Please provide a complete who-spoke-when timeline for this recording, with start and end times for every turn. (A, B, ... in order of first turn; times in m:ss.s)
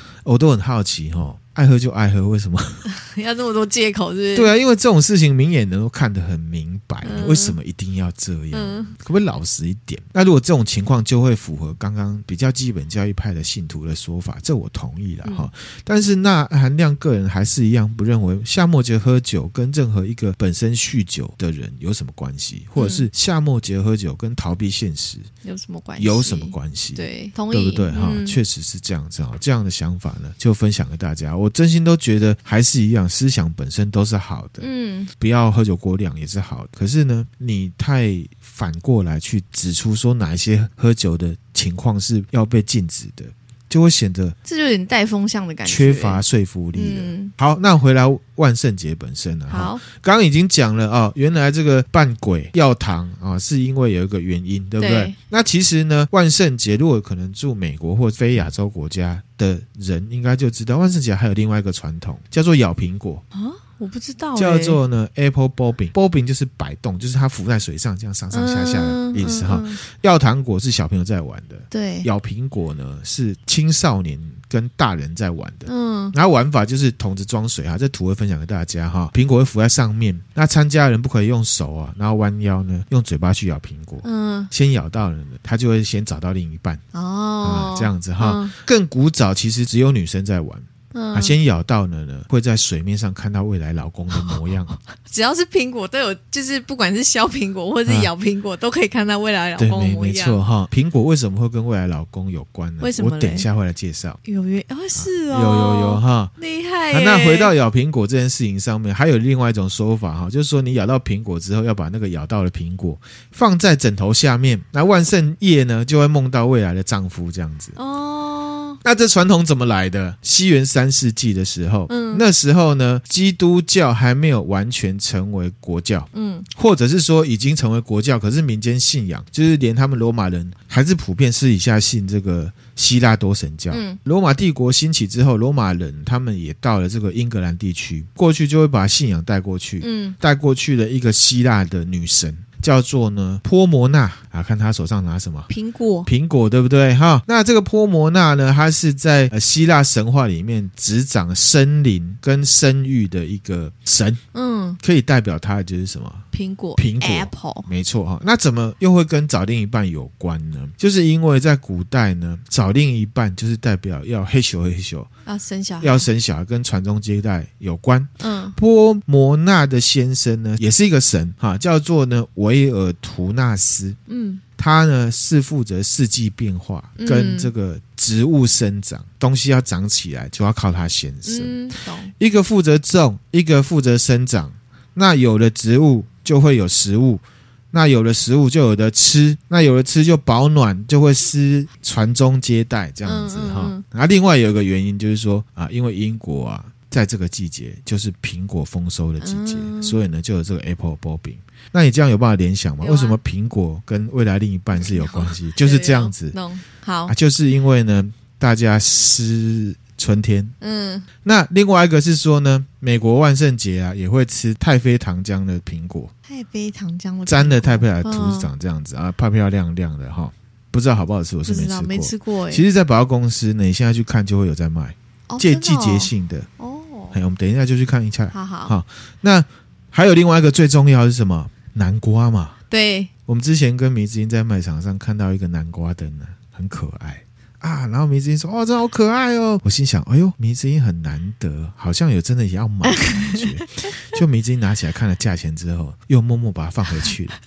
0:00.2-0:02.9 A
0:02.9-0:04.5 B
0:04.4-0:25.3 A
0:07.0-0:07.6 B
0:08.5-0:08.9 B
0:15.2-0:15.5 B
0:22.8-0:23.1 B
0:25.4-0:28.4 B
0:26.0-0:44.4 A
0:34.6-0:35.1 B
0:44.4-0:46.2 B
0:45.7-1:03.2 A
0:46.8-0:47.3 B
0:49.5-0:49.8 B
0:54.8-0:55.2 B
1:03.3-1:04.8 B
1:04.4-1:26.8 A
1:08.3-1:09.8 B
1:11.7-1:12.1 B
1:15.7-1:16.2 B
1:24.0-1:24.5 B
1:26.9-1:28.5 B
1:27.4-1:34.8 A
1:30.9-1:31.4 B
1:34.9-1:40.4 B
1:37.9-1:38.1 A
1:39.6-1:44.2 A
1:42.8-1:43.5 B
1:44.2-1:47.5 B
1:44.9-1:46.3 A
1:46.9-1:57.8 A
1:57.8-1:58.8 B
1:58.8-2:25.5 A
2:01.9-2:02.2 B
2:06.1-2:06.5 B
2:13.7-2:14.0 B
2:19.8-2:20.2 B
2:25.5-2:26.1 B
2:26.1-2:34.2 A
2:34.3-2:34.8 B
2:34.8-2:36.2 A
2:36.3-2:37.7 B
2:36.8-2:45.1 A
2:45.2-2:46.1 B
2:45.8-2:54.0 A
2:48.2-2:48.6 B
2:54.1-2:54.4 B
2:54.6-3:01.6 A
2:57.0-2:57.5 B
3:01.2-3:02.1 B
3:02.2-3:26.4 A
3:13.0-3:13.8 B
3:19.2-3:20.0 B
3:22.8-3:23.2 B
3:24.7-3:27.1 B
3:27.1-3:30.5 A
3:30.6-3:31.1 B
3:31.2-3:36.1 A
3:36.3-3:38.5 B
3:37.2-3:46.5 A
3:41.4-3:42.6 B
3:45.3-3:47.1 B
3:47.1-3:52.6 A
3:48.3-3:48.8 B
3:52.7-3:53.1 B
3:53.2-4:07.4 A
4:02.8-4:04.2 B